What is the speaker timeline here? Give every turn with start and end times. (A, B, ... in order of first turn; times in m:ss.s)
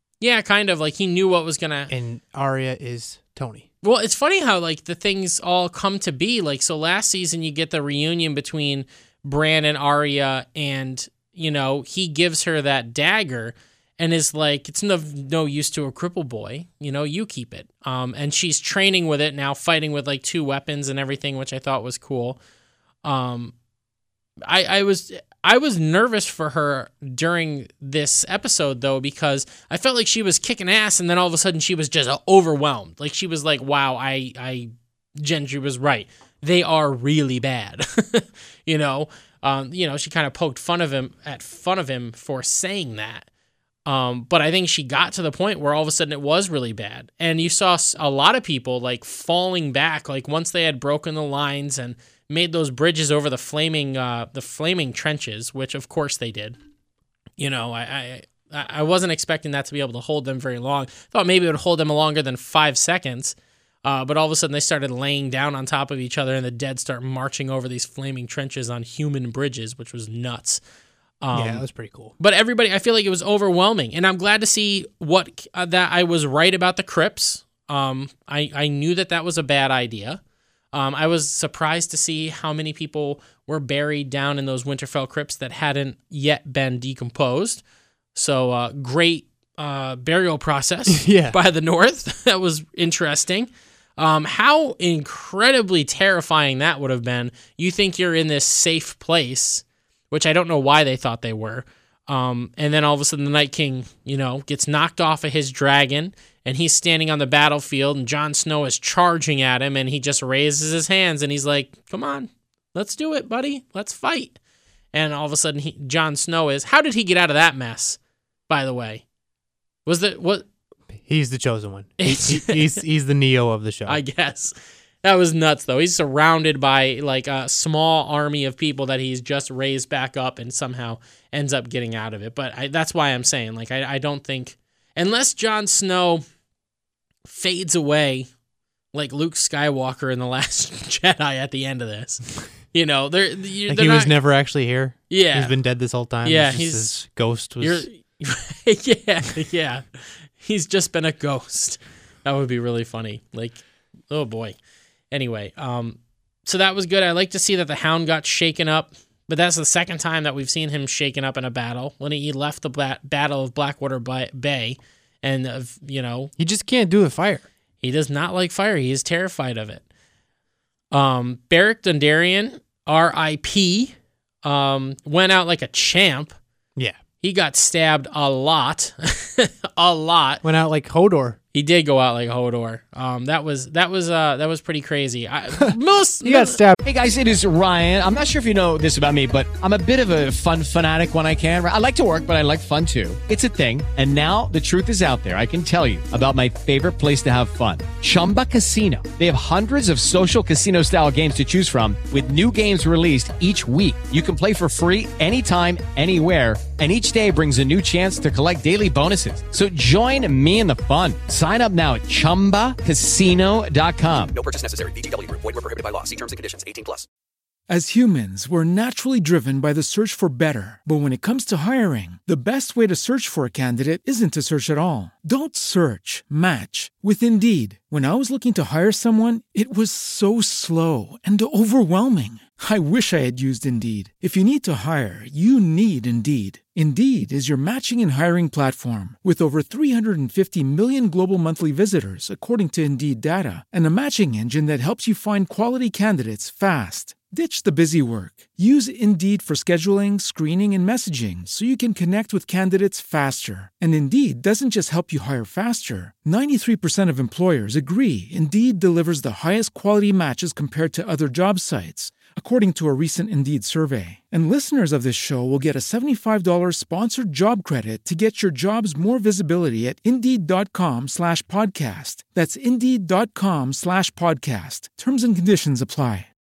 0:00.2-0:01.9 A
0:01.9-0:03.7 B
0:03.8-0:22.4 A
0:23.0-0:23.5 A
0:24.4-0:43.3 A
0:43.9-0:56.6 A
0:57.4-1:10.6 A
1:11.2-1:11.7 A
1:11.3-1:12.1 B
1:12.2-1:20.2 A
1:20.7-1:27.6 A
1:28.2-1:54.4 A
1:30.9-1:31.4 B
1:54.9-1:58.0 A
1:58.5-1:59.0 A
1:59.9-2:00.5 A
2:01.0-2:04.0 B
2:02.0-2:02.8 A
2:03.9-2:16.2 A
2:17.2-2:18.3 A
2:18.9-2:24.2 A
2:23.7-2:27.9 B
2:25.1-2:25.6 A
2:26.2-2:26.9 A
2:27.6-2:34.6 A
2:35.1-2:46.3 A
2:46.4-2:47.5 B
2:47.8-2:49.8 A
2:50.9-2:56.4 A
2:57.2-3:00.4 A
3:00.4-3:01.4 B
3:01.5-3:06.6 A
3:05.6-3:06.8 B
3:06.8-3:34.4 C
3:34.3-3:37.1 D
3:37.7-4:36.3 E